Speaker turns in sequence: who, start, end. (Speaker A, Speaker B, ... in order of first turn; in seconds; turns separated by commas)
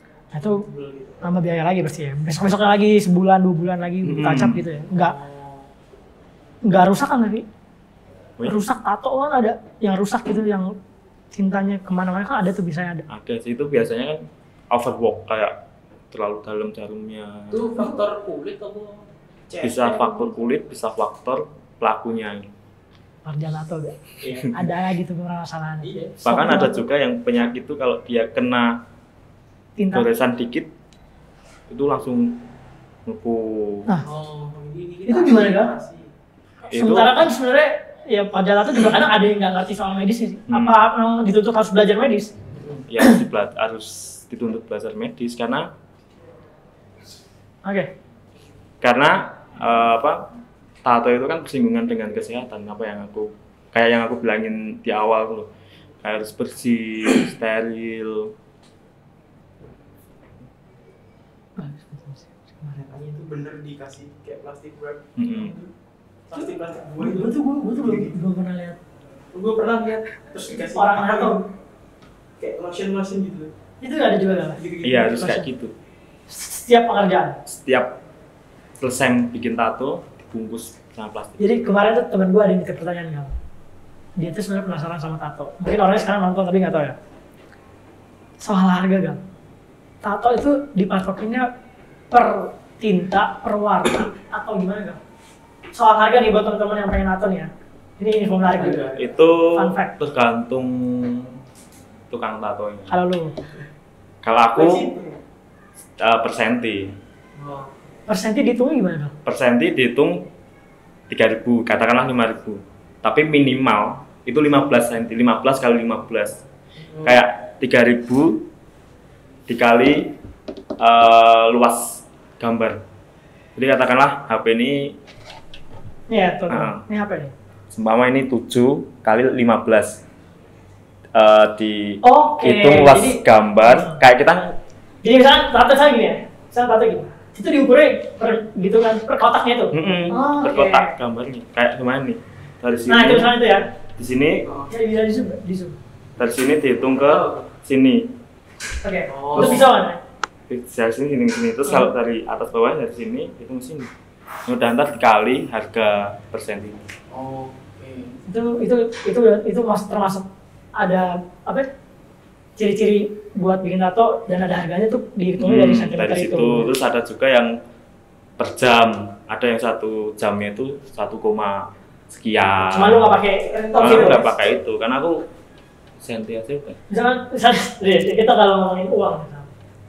Speaker A: 0.3-0.6, Speaker B: 0.4-1.2, Speaker A: 1.2-5.2, Speaker C: 4.0-4.6, Speaker B: 4.9-5.7, Speaker A: 6.7-7.5, Speaker A: 8.4-10.7, Speaker A: 11.3-13.0, Speaker C: 13.1-15.6, Speaker C: 16.1-17.8, Speaker B: 17.5-19.9, Speaker C: 19.6-22.5, Speaker A: 23.2-26.9, Speaker B: 24.2-24.6, Speaker B: 25.8-26.1, Speaker C: 26.2-28.8, Speaker A: 29.8-30.1, Speaker C: 29.9-30.7, Speaker C: 31.7-32.4, Speaker C: 33.1-33.9, Speaker B: 34.0-36.1, Speaker A: 35.1-35.7, Speaker A: 36.6-42.3, Speaker C: 36.7-37.3, Speaker C: 40.5-40.8, Speaker C: 42.9-45.7, Speaker A: 47.6-47.9, Speaker C: 48.8-50.3, Speaker C: 50.9-55.5, Speaker C: 56.0-58.3, Speaker A: 61.6-62.8, Speaker B: 62.7-65.7, Speaker C: 65.2-65.5, Speaker B: 66.3-68.1, Speaker A: 67.0-68.8, Speaker B: 69.3-71.4, Speaker A: 70.7-71.4, Speaker B: 72.4-73.5, Speaker A: 73.8-74.6, Speaker B: 74.6-75.3, Speaker C: 74.8-75.7, Speaker A: 75.1-75.4, Speaker A: 76.3-77.4, Speaker C: 77.5-78.0, Speaker C: 78.8-81.6, Speaker A: 81.4-83.3, Speaker A: 84.2-87.0, Speaker A: 88.4-89.2, Speaker A: 90.0-91.5, Speaker A: 92.1-95.0, Speaker A: 95.7-98.9, Speaker B: 98.5-99.1, Speaker C: 99.0-101.4, Speaker A: 99.5-99.9, Speaker C: 102.1-103.0, Speaker A: 102.9-103.3, Speaker C: 104.2-104.9, Speaker A: 104.6-104.8, Speaker B: 104.7-105.1, Speaker C: 106.0-107.0, Speaker B: 107.4-107.7, Speaker A: 108.1-109.1, Speaker C: 109.2-110.2, Speaker C: 111.1-116.4, Speaker B: 116.8-117.2, Speaker C: 117.0-118.5, Speaker C: 119.5-120.1, Speaker C: 120.8-122.8, Speaker C: 123.6-125.0, Speaker A: 126.1-127.3, Speaker C: 126.5-126.8, Speaker C: 127.7-130.0, Speaker C: 131.2-134.5, Speaker A: 132.0-134.0, Speaker A: 135.0-140.9, Speaker C: 139.7-143.3, Speaker A: 142.9-143.7, Speaker C: 144.0-144.5, Speaker B: 144.5-144.7, Speaker A: 144.7-145.8, Speaker C: 146.2-148.1, Speaker B: 147.1-147.5, Speaker A: 148.8-150.0, Speaker B: 149.1-149.7, Speaker C: 149.3-149.7, Speaker C: 150.5-153.9, Speaker C: 154.5-156.9, Speaker B: 157.1-158.2, Speaker A: 158.3-160.3, Speaker A: 160.8-161.7, Speaker A: 162.6-166.7, Speaker C: 165.4-167.5, Speaker C: 168.4-173.2, Speaker A: 172.7-174.3, Speaker B: 173.7-174.2, Speaker C: 173.8-175.2, Speaker C: 176.0-176.8, Speaker A: 176.9-179.5